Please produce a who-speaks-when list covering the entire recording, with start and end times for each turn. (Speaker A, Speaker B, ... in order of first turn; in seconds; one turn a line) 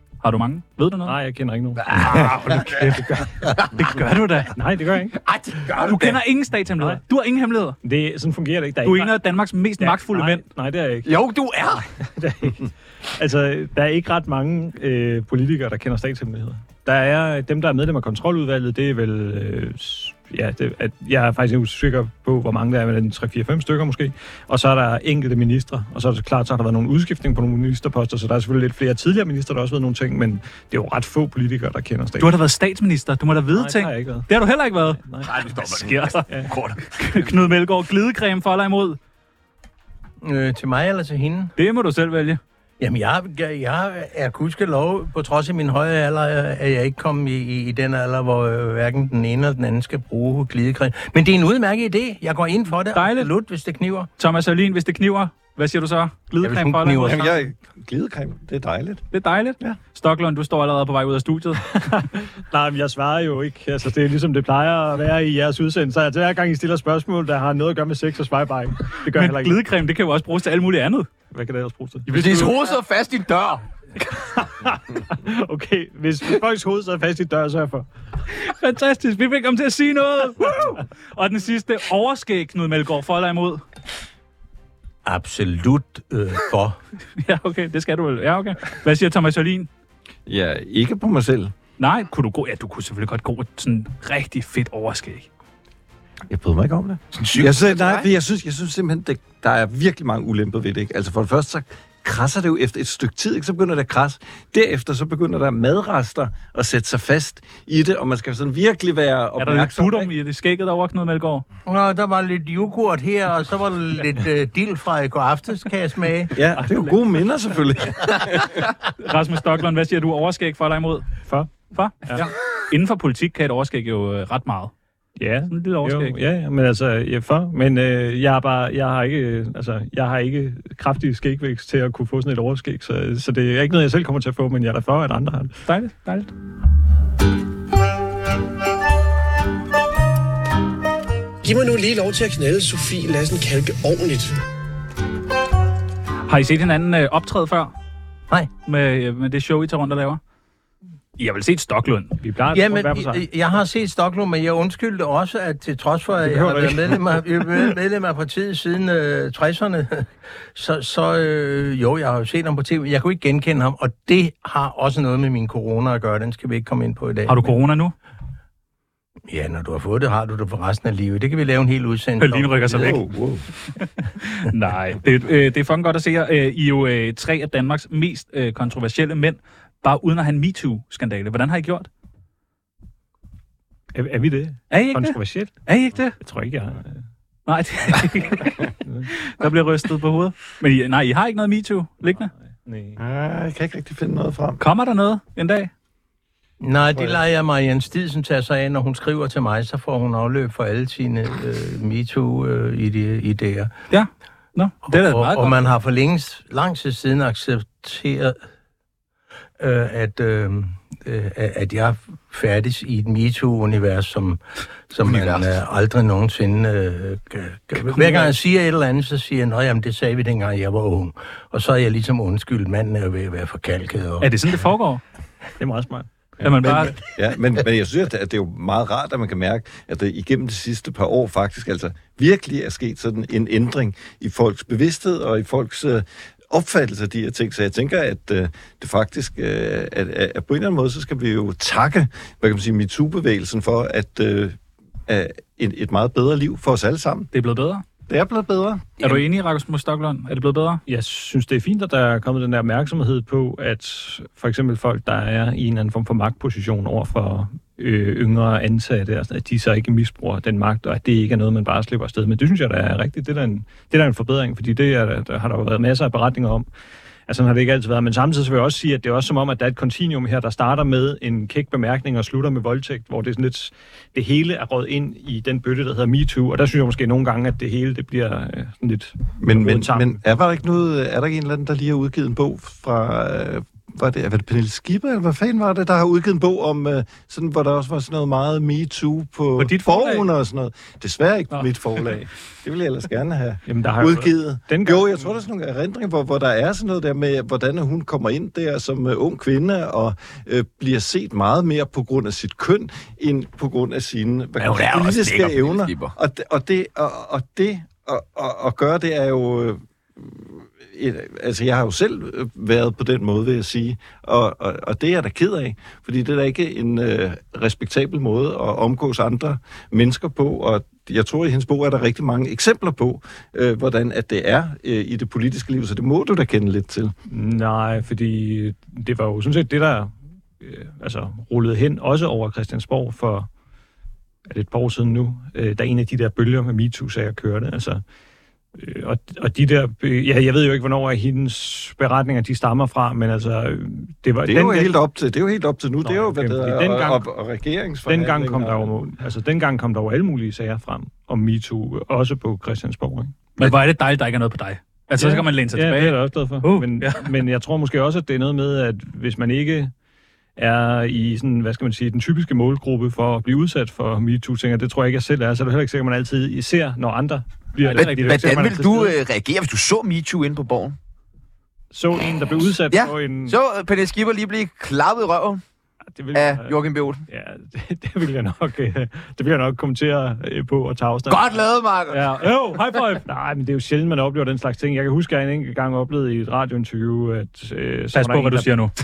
Speaker A: 0.2-1.2
Speaker B: 1.1-3.4
Speaker A: 1.9-4.5
Speaker C: 2.0-2.7
Speaker B: 4.6-5.2
Speaker C: 5.2-6.2
Speaker A: 5.8-7.8
Speaker B: 7.8-9.2
Speaker A: 8.8-10.5
Speaker B: 9.8-11.1
Speaker C: 11.1-11.9
Speaker B: 12.0-32.4
Speaker A: 32.2-39.0
Speaker B: 33.5-34.3
Speaker B: 35.0-35.3
Speaker C: 35.2-37.1
Speaker D: 40.2-41.5
Speaker A: 41.6-42.4
Speaker D: 42.8-54.1
Speaker A: 53.0-53.3
Speaker A: 54.2-57.3
Speaker D: 56.4-57.4
Speaker E: 57.0-59.1
Speaker A: 59.1-61.8
Speaker B: 61.8-69.6
Speaker A: 69.1-71.1
Speaker B: 71.3-72.1
Speaker A: 72.1-72.7
Speaker C: 72.1-73.6
Speaker B: 74.1-77.9
Speaker A: 78.3-83.6
Speaker D: 85.0-86.8
Speaker A: 87.2-89.7
Speaker E: 90.3-91.5
Speaker A: 91.8-95.3
Speaker E: 96.3-110.1
Speaker C: 97.2-98.1
Speaker A: 109.4-111.5
Speaker D: 111.7-116.4
Speaker E: 116.3-118.6
Speaker A: 118.8-121.1
Speaker B: 121.3-121.5
Speaker A: 121.6-124.7
Speaker B: 125.2-135.6
Speaker A: 125.5-126.2
Speaker A: 135.7-136.3
Speaker F: 141.4-144.4
Speaker A: 146.3-147.7
Speaker A: 148.7-150.2
Speaker A: 151.2-152.2
Speaker B: 152.2-153.2
Speaker D: 152.5-167.5
Speaker B: 156.2-157.2
Speaker A: 167.3-167.9
Speaker D: 169.3-173.0
Speaker A: 172.2-173.0
Speaker E: 172.7-173.4
Speaker A: 173.8-181.9
Speaker B: 183.9-187.0
Speaker A: 184.7-186.2
Speaker A: 187.5-192.3
Speaker B: 188.8-189.1
Speaker B: 192.1-193.0
Speaker E: 193.0-194.6
Speaker A: 194.6-195.7
Speaker D: 196.6-203.8
Speaker A: 203.9-205.6
Speaker D: 204.9-208.4
Speaker D: 209.6-224.5
Speaker C: 215.0-215.5
Speaker A: 224.2-225.0
Speaker B: 225.6-226.1
Speaker E: 226.4-247.3
Speaker A: 226.4-227.1
Speaker A: 247.3-247.8
Speaker E: 248.1-249.1
Speaker A: 249.0-250.8
Speaker B: 250.9-266.7
Speaker B: 267.3-280.2
Speaker E: 279.4-327.1
Speaker A: 289.6-290.3
Speaker B: 293.7-295.4
Speaker C: 304.6-306.1
Speaker B: 327.3-333.5
Speaker B: 334.5-338.0
Speaker B: 338.8-344.9
Speaker E: 344.4-348.9
Speaker B: 346.0-347.3
Speaker B: 348.1-353.4
Speaker A: 353.6-357.2
Speaker B: 355.2-359.9
Speaker B: 360.6-369.2
Speaker A: 367.8-368.4
Speaker C: 367.9-371.0
Speaker B: 371.9-373.6
Speaker C: 372.9-375.6
Speaker B: 376.2-381.6
Speaker C: 376.3-377.2
Speaker C: 381.3-382.4
Speaker A: 382.1-383.2
Speaker B: 383.3-388.8
Speaker A: 388.1-388.9